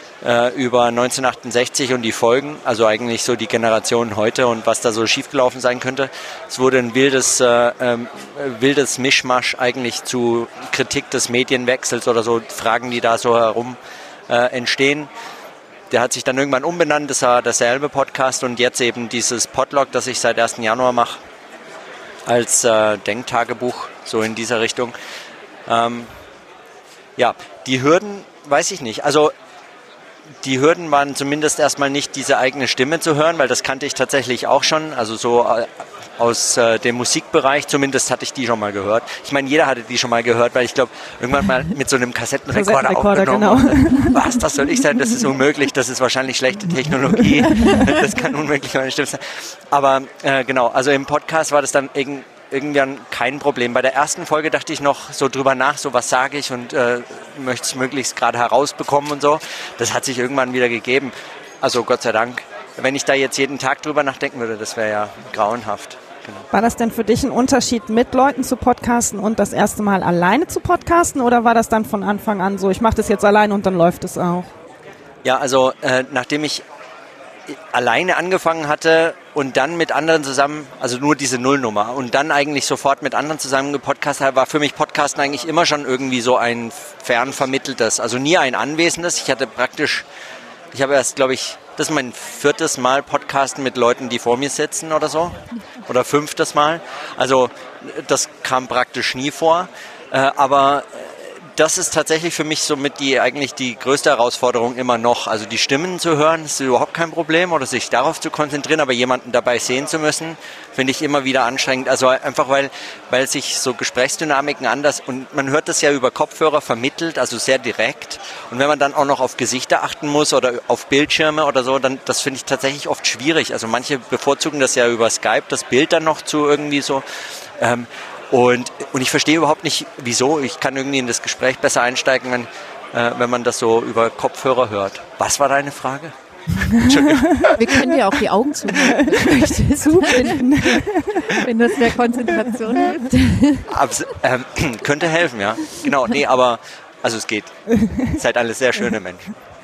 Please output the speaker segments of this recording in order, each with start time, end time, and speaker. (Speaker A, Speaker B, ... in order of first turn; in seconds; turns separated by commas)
Speaker A: 0.2-13.8, Speaker A: 14.3-15.1, Speaker A: 15.9-21.2, Speaker A: 22.3-25.0, Speaker A: 25.7-26.1, Speaker A: 27.2-29.3, Speaker A: 30.4-66.5, Speaker B: 42.5-44.2, Speaker B: 47.5-47.8, Speaker B: 66.5-74.5, Speaker A: 75.2-76.6, Speaker A: 77.5-90.0, Speaker A: 90.7-127.0, Speaker A: 127.6-137.6, Speaker B: 136.9-137.6, Speaker C: 137.6-143.7, Speaker B: 138.7-141.4, Speaker B: 142.4-142.9, Speaker A: 143.7-149.3, Speaker B: 147.7-148.2